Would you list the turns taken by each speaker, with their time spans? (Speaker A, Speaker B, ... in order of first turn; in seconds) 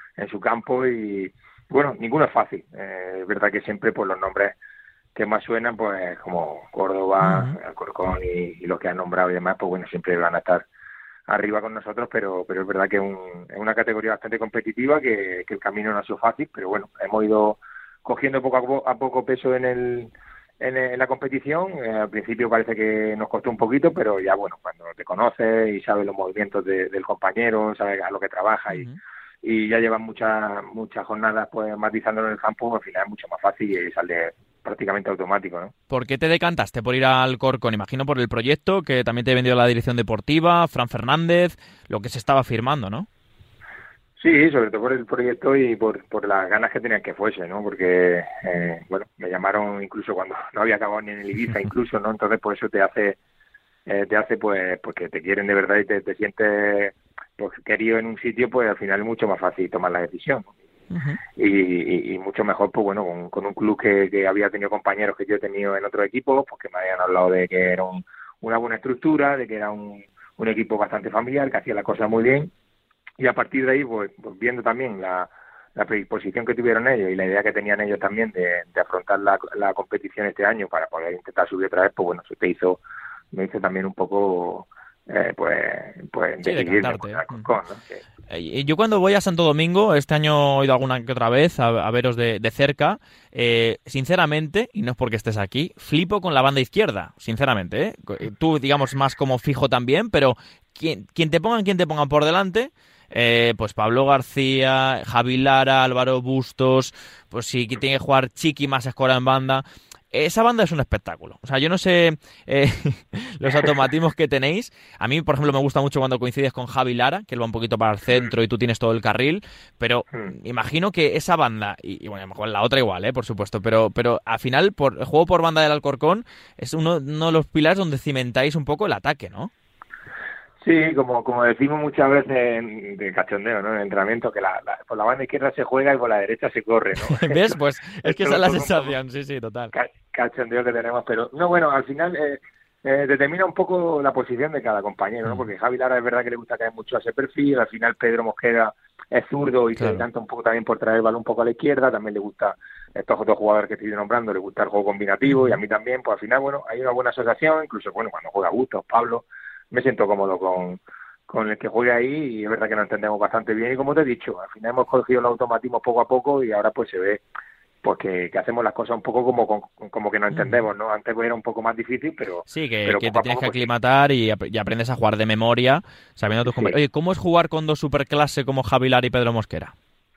Speaker A: 0.2-4.6, 5.2-10.7, 11.3-28.9, 29.4-35.7, 44.2-53.2, 53.9-60.5, 61.4-72.5, 73.2-82.8, 83.3-88.0, 130.6-139.0, 139.7-167.2, 167.8-173.7, 176.5-176.8
Speaker B: 7.2-7.5, 28.7-29.0, 35.9-43.1, 60.9-61.2, 86.4-87.5, 88.3-129.5, 137.1-139.7, 149.8-150.1, 155.3-155.6, 170.3-170.6, 172.5-179.7